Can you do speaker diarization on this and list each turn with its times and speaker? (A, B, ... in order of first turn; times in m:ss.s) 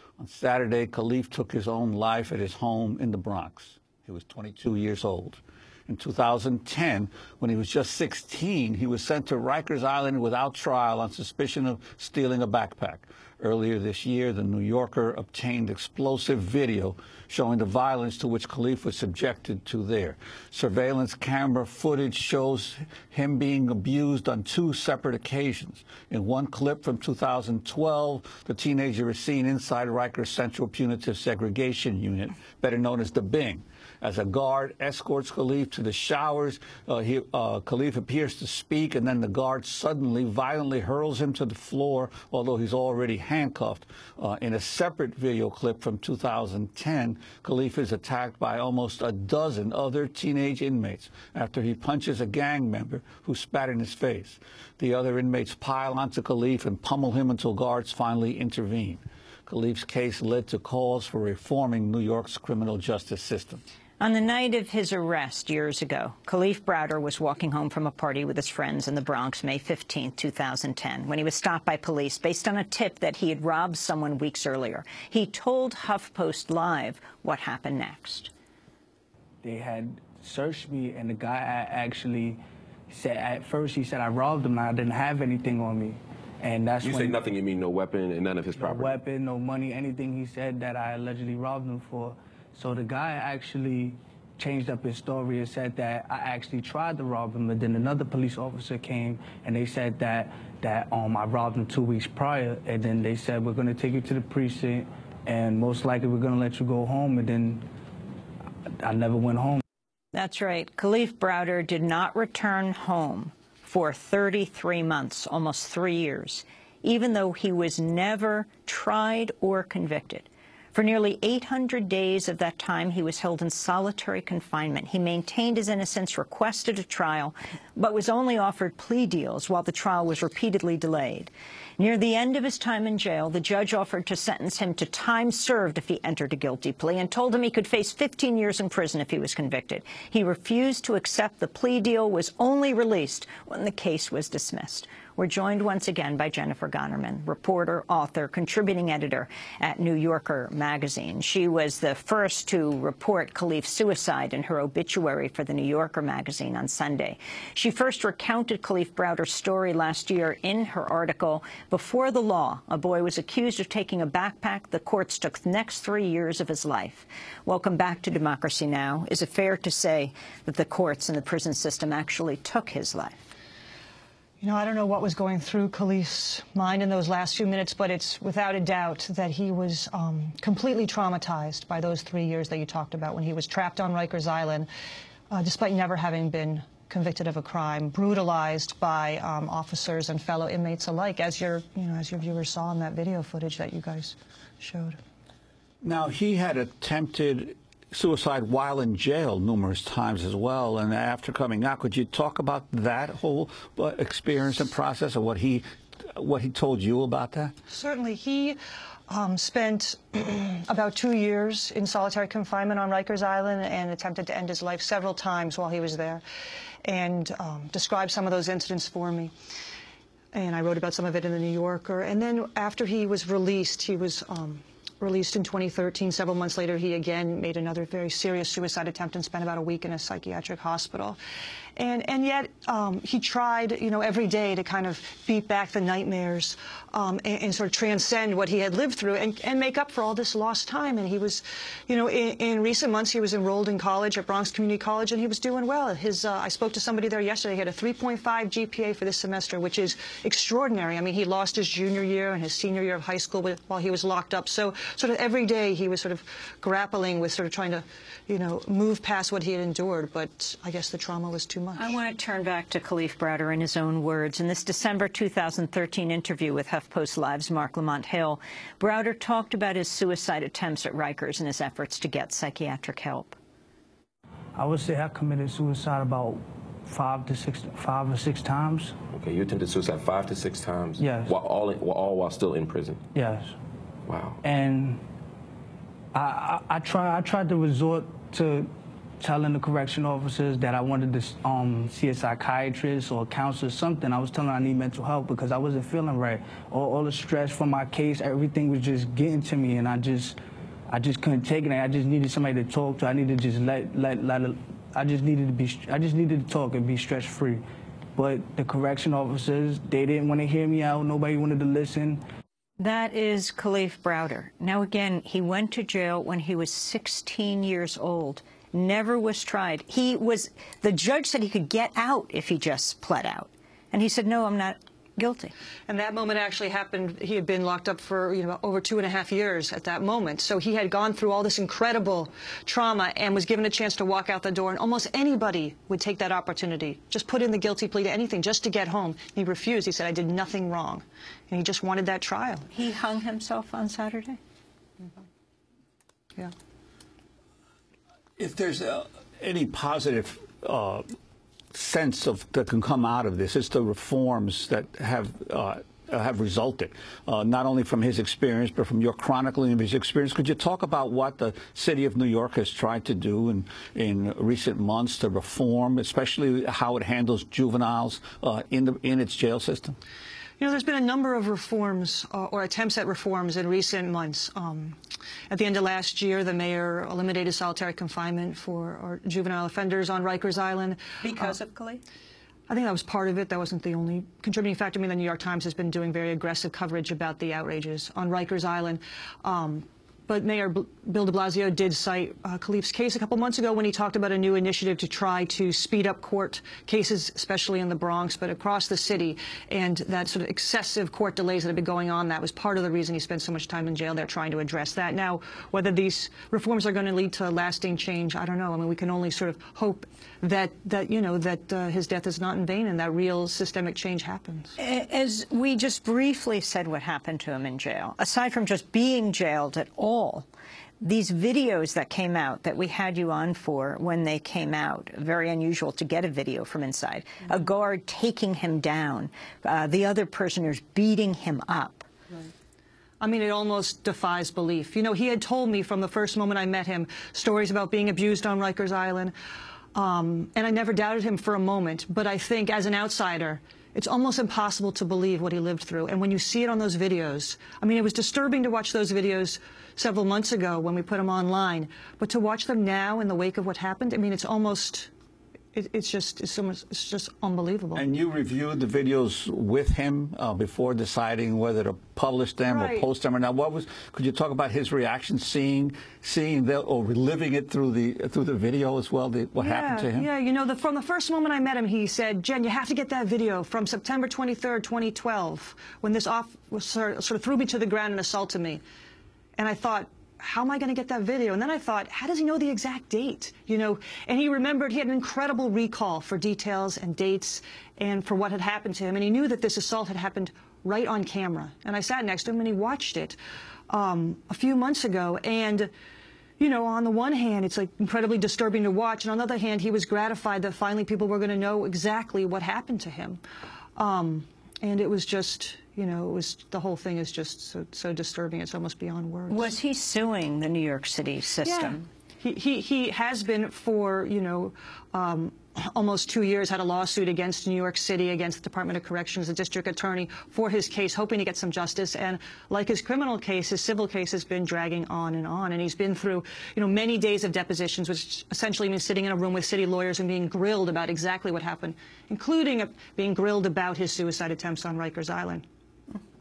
0:00.2-1:03.6 A
1:04.0-1:18.3 B
1:19.4-1:27.2 C
1:26.8-1:29.0 D
1:28.6-1:47.6 C
1:48.8-1:49.6 C
1:50.1-2:53.3 B
2:54.4-3:04.7 E
3:05.3-3:15.0 E
3:15.8-3:27.5 A
3:27.7-3:28.6 E
3:29.1-3:36.2 E
3:36.8-3:39.3 E
3:40.3-3:51.2 E
3:51.8-4:22.0 E
4:21.8-4:33.4 B
4:34.6-4:38.9 C
4:39.1-4:43.0 D
4:41.0-4:41.4 C
4:43.2-4:43.5 C
4:44.1-4:44.4 D
4:44.4-4:45.0 C
4:46.1-4:48.7 C
4:49.2-5:00.4 C
5:00.9-5:07.6 C
5:08.2-5:12.2 C
5:12.8-5:25.5 B
5:25.9-5:42.7 E
5:42.7-5:44.4 B
5:48.4-5:51.0 A
5:51.7-6:10.0 A
6:10.6-6:15.0 E
6:15.5-6:21.5 E
6:21.2-6:22.0 B
6:22.7-6:54.7 E
6:54.8-7:00.5 B
7:01.0-7:12.1 B
7:13.2-7:19.3 E
7:20.0-7:35.1 E
7:35.7-7:38.0 E
7:38.0-7:50.3 A
7:42.7-7:43.1 E
7:49.6-7:58.8 E
7:59.6-8:13.4 E
8:13.9-8:15.9 E
8:16.6-8:23.4 E
8:24.0-8:29.8 E
8:29.5-8:32.1 B
8:31.6-8:55.6 E